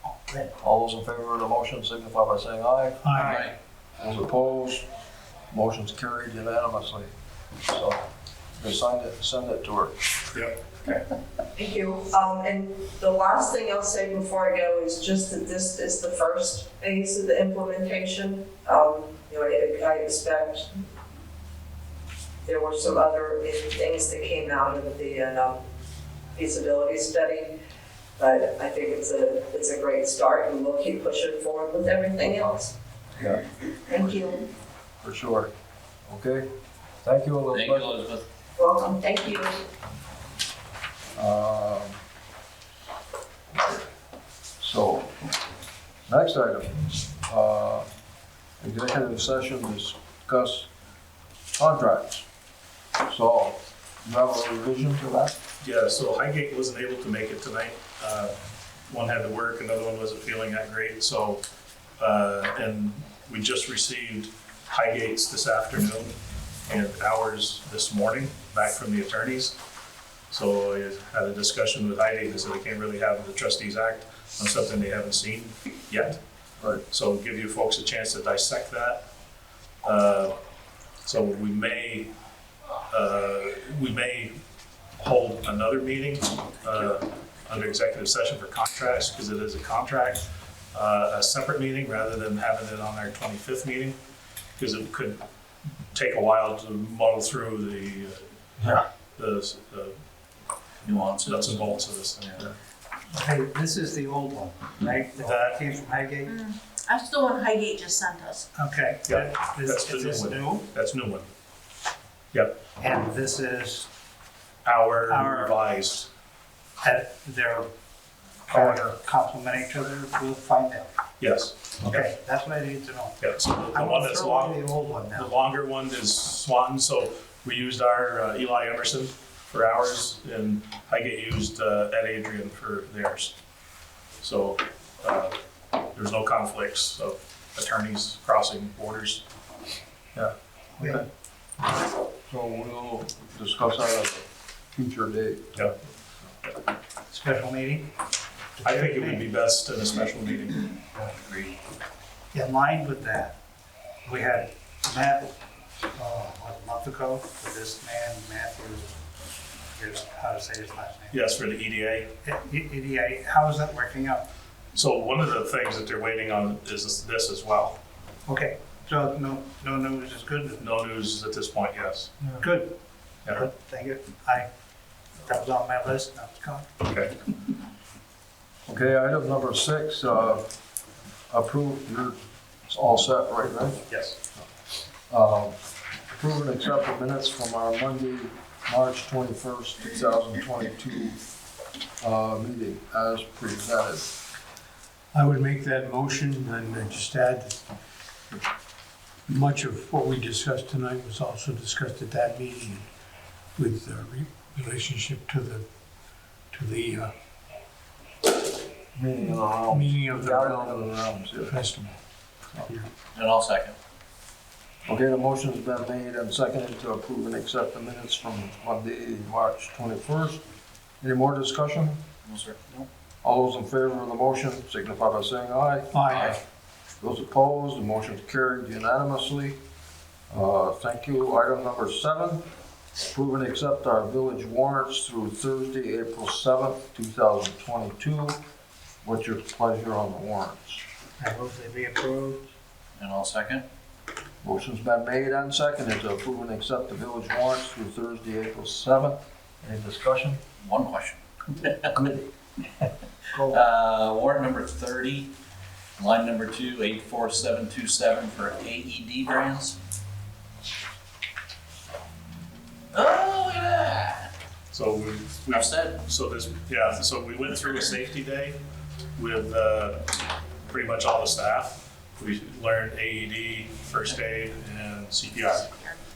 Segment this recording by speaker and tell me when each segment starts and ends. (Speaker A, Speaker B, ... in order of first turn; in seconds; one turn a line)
Speaker A: 0.2-0.5
Speaker B: 0.6-3.4
Speaker C: 3.0-3.4
Speaker D: 3.2-3.5
Speaker B: 4.0-4.9
Speaker B: 5.5-7.1
Speaker B: 7.7-8.0
Speaker B: 8.6-10.0
Speaker E: 10.3-11.0
Speaker F: 11.6-20.8
Speaker F: 22.4-25.6
Speaker F: 26.4-27.6
Speaker F: 28.2-32.7
Speaker B: 33.2-33.5
Speaker F: 33.8-34.5
Speaker B: 35.0-35.5
Speaker B: 36.1-36.5
Speaker B: 37.0-38.0
Speaker D: 37.5-38.2
Speaker F: 38.6-39.6
Speaker B: 41.1-42.0
Speaker B: 44.6-45.1
Speaker B: 46.1-47.9
Speaker B: 48.6-50.7
Speaker B: 51.5-52.3
Speaker B: 53.0-55.4
Speaker E: 55.6-58.4
Speaker E: 58.9-61.4
Speaker E: 62.0-69.6
Speaker E: 70.3-76.2
Speaker E: 76.9-79.1
Speaker E: 79.8-80.4
Speaker E: 81.0-82.1
Speaker E: 82.9-84.4
Speaker E: 85.0-94.0
Speaker E: 94.6-95.2
Speaker E: 95.9-100.0
Speaker D: 100.8-102.5
Speaker E: 101.0-102.5
Speaker A: 103.1-106.3
Speaker E: 105.2-105.6
Speaker G: 106.3-108.5
Speaker A: 108.5-110.7
Speaker E: 109.1-111.3
Speaker A: 112.8-113.9
Speaker E: 114.7-116.1
Speaker A: 115.1-115.6
Speaker A: 116.8-117.7
Speaker A: 118.5-120.9
Speaker E: 118.5-118.9
Speaker E: 121.2-122.1
Speaker A: 121.8-125.3
Speaker E: 123.2-133.4
Speaker E: 134.2-135.4
Speaker E: 135.9-139.2
Speaker A: 140.8-141.1
Speaker B: 141.6-145.8
Speaker A: 147.1-147.9
Speaker A: 148.6-149.3
Speaker E: 148.6-150.7
Speaker D: 151.0-151.6
Speaker A: 152.3-153.4
Speaker A: 154.1-155.3
Speaker A: 155.9-159.0
Speaker A: 159.8-161.2
Speaker E: 161.1-162.1
Speaker A: 162.2-164.3
Speaker E: 164.7-167.8
Speaker A: 168.3-170.7
Speaker E: 170.6-172.1
Speaker A: 172.4-174.5
Speaker A: 175.3-176.7
Speaker E: 176.8-177.2
Speaker B: 178.7-180.5
Speaker B: 181.3-182.2
Speaker B: 182.7-184.4
Speaker E: 183.9-184.2
Speaker B: 185.1-185.6
Speaker B: 186.1-191.2
Speaker B: 192.0-194.1
Speaker C: 195.1-197.7
Speaker C: 199.3-202.9
Speaker C: 203.6-205.7
Speaker C: 206.5-207.1
Speaker B: 208.9-211.7
Speaker C: 209.7-211.9
Speaker D: 213.1-213.8
Speaker B: 214.9-220.4
Speaker B: 221.0-222.0
Speaker D: 222.2-222.9
Speaker B: 223.2-226.1
Speaker C: 225.9-226.3
Speaker D: 226.1-226.4
Speaker B: 227.0-229.6
Speaker B: 230.3-232.5
Speaker B: 233.0-238.4
Speaker B: 239.0-240.8
Speaker A: 241.2-242.5
Speaker D: 243.0-243.7
Speaker B: 244.4-250.4
Speaker D: 250.6-252.7
Speaker B: 251.9-252.2
Speaker D: 253.3-255.3
Speaker D: 256.0-259.8
Speaker D: 262.9-264.3
Speaker E: 264.7-268.6
Speaker D: 265.5-266.0
Speaker E: 269.2-275.7